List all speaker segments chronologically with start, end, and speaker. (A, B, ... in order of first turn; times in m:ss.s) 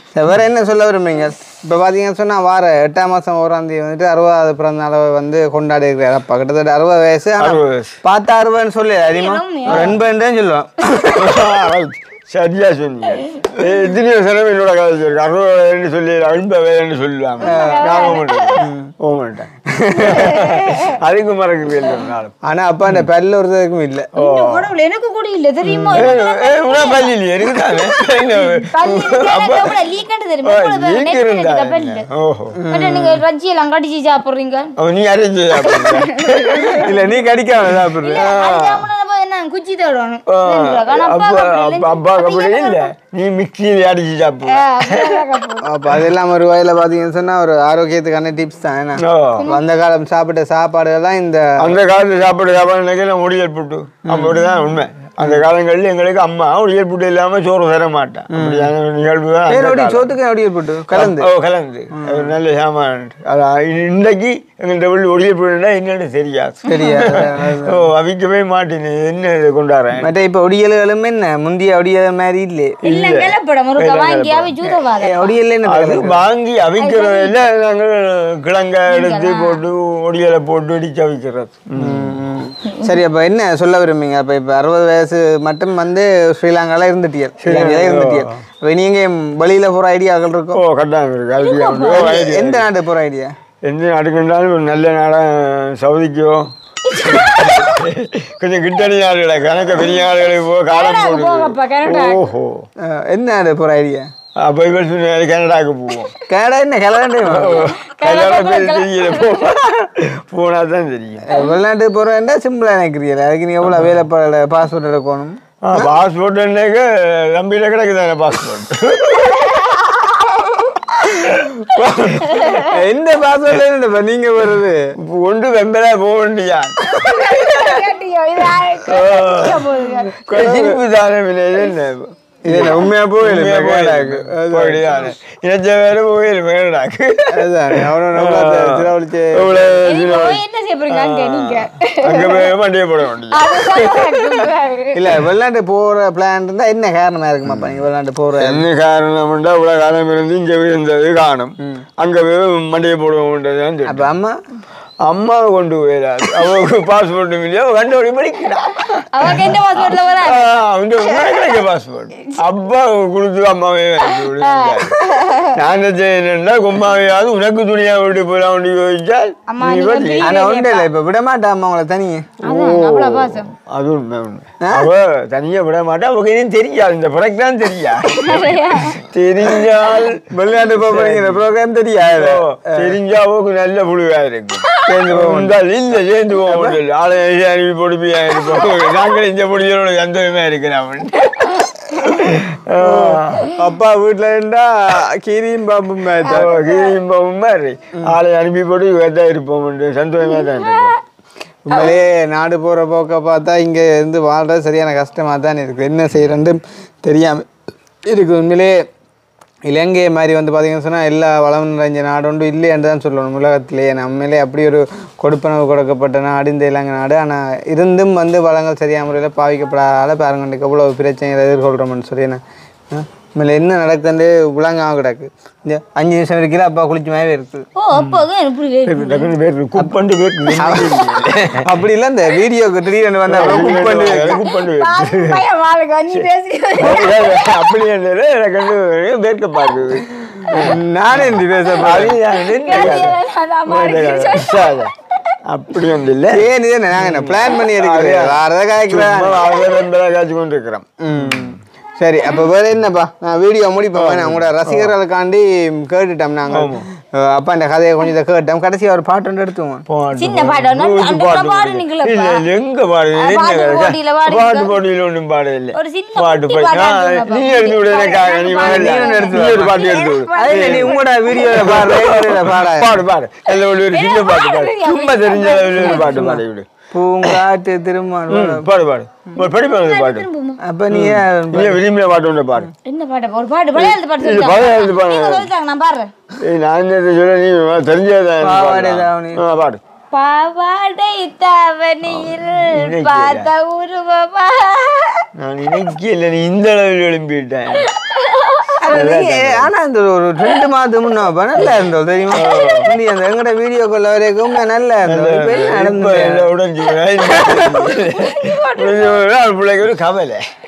0:00.2-0:11.5 A
0:07.4-0:08.0 B
0:09.1-0:10.0 C
0:09.7-0:10.0 B
0:11.2-0:22.3 B
0:17.4-0:18.7 C
0:17.4-0:18.9 A
0:19.8-0:20.3 A
0:20.1-0:20.9 C
0:22.5-0:24.1 A
0:24.2-0:24.7 B
0:24.2-0:32.1 C
0:25.7-0:26.0 A
0:25.9-0:29.8 B
0:30.4-0:32.6 B
0:32.6-0:33.2 A
0:32.7-0:34.7 C
0:34.8-0:36.8 B
0:35.6-0:36.9 C
0:36.6-0:38.3 A
0:38.0-0:42.9 C
0:38.1-0:38.9 B
0:40.3-0:45.2 B
0:44.5-0:45.7 C
0:45.6-0:51.4 A
0:49.0-0:49.5 B
0:51.6-1:00.1 B
0:54.0-0:54.4 A
0:55.2-0:55.4 A
0:58.3-0:58.7 A
0:59.5-1:01.3 A
1:00.9-1:10.1 B
1:02.0-1:02.3 A
1:06.7-1:07.8 A
1:06.7-1:07.2 C
1:10.0-1:12.8 A
1:12.8-1:15.4 C
1:12.8-1:14.5 B
1:14.7-1:16.2 A
1:15.7-1:22.2 B
1:16.8-1:17.4 C
1:18.9-1:19.6 C
1:21.8-1:30.6 A
1:27.4-1:28.3 B
1:30.5-1:32.7 B
1:31.4-1:32.1 C
1:31.9-1:33.3 A
1:33.6-1:36.5 B
1:36.9-1:37.8 C
1:37.0-1:42.7 B
1:39.7-1:42.2 C
1:42.8-1:44.1 A
1:44.4-1:46.1 B
1:46.3-1:47.6 A
1:47.2-1:51.2 B
1:47.6-1:49.5 C
1:51.2-1:55.9 A
1:55.6-1:59.6 B
1:59.2-2:00.8 C
2:00.9-2:02.6 B
2:02.2-2:02.7 C
2:02.6-2:04.8 A
2:05.1-2:07.8 B
2:06.8-2:10.7 C
2:08.6-2:09.7 B
2:10.2-2:24.5 B
2:10.3-2:10.8 A
2:12.5-2:15.2 A
2:17.3-2:19.8 A
2:19.8-2:22.5 C
2:23.3-2:25.2 C
2:24.9-2:28.6 A
2:27.4-2:27.8 B
2:28.4-2:34.1 B
2:33.9-2:34.4 A
2:35.0-2:45.0 B
2:39.1-2:40.5 C
2:41.0-2:41.6 C
2:44.1-2:45.6 C
2:45.5-2:50.3 B
2:49.5-2:50.9 C
2:50.2-2:52.3 A
2:52.4-2:53.5 C
2:52.4-3:01.4 B
2:54.6-2:54.9 A
2:58.1-2:59.0 C
3:00.3-3:03.0 A
3:02.0-3:13.5 B
3:04.9-3:05.6 A
3:06.4-3:06.8 A
3:08.5-3:09.0 C
3:12.8-3:16.5 A
3:16.2-3:17.0 C
3:16.3-3:21.0 B
3:20.3-3:21.0 C
3:21.6-3:27.4 A
3:28.1-3:28.8 A
3:29.7-3:47.7 A
3:47.8-3:49.3 C
3:48.0-3:48.2 B
3:48.9-3:51.6 B
3:50.5-3:51.0 A
3:51.6-3:54.4 A
3:53.3-3:55.4 B
3:54.1-3:57.8 C
3:56.1-4:04.9 B
4:00.6-4:02.2 A
4:02.3-4:04.9 C
4:02.7-4:03.1 A
4:05.5-4:11.6 B
4:06.3-4:09.6 A
4:11.0-4:19.9 A
4:13.9-4:14.9 B
4:16.5-4:16.9 B
4:19.9-4:36.7 B
4:20.2-4:22.4 C
4:23.2-4:24.8 C
4:25.7-4:31.8 C
4:28.6-4:29.8 A
4:30.3-4:33.0 A
4:33.5-4:36.2 C
4:35.8-4:38.7 A
4:38.3-4:40.3 B
4:39.4-4:40.6 C
4:40.6-4:41.8 A
4:40.9-4:42.7 B
4:42.8-4:46.1 C
4:43.8-4:45.5 B
4:46.4-4:49.8 B
4:48.4-4:49.4 A
4:50.1-4:55.3 C
4:52.0-4:53.5 B
4:55.4-4:57.9 B
4:57.8-4:58.8 C
4:58.8-5:06.5 A
4:58.9-4:59.7 B
5:02.3-5:02.9 B
5:02.4-5:02.9 C
5:05.1-5:10.4 B
5:07.2-5:09.2 C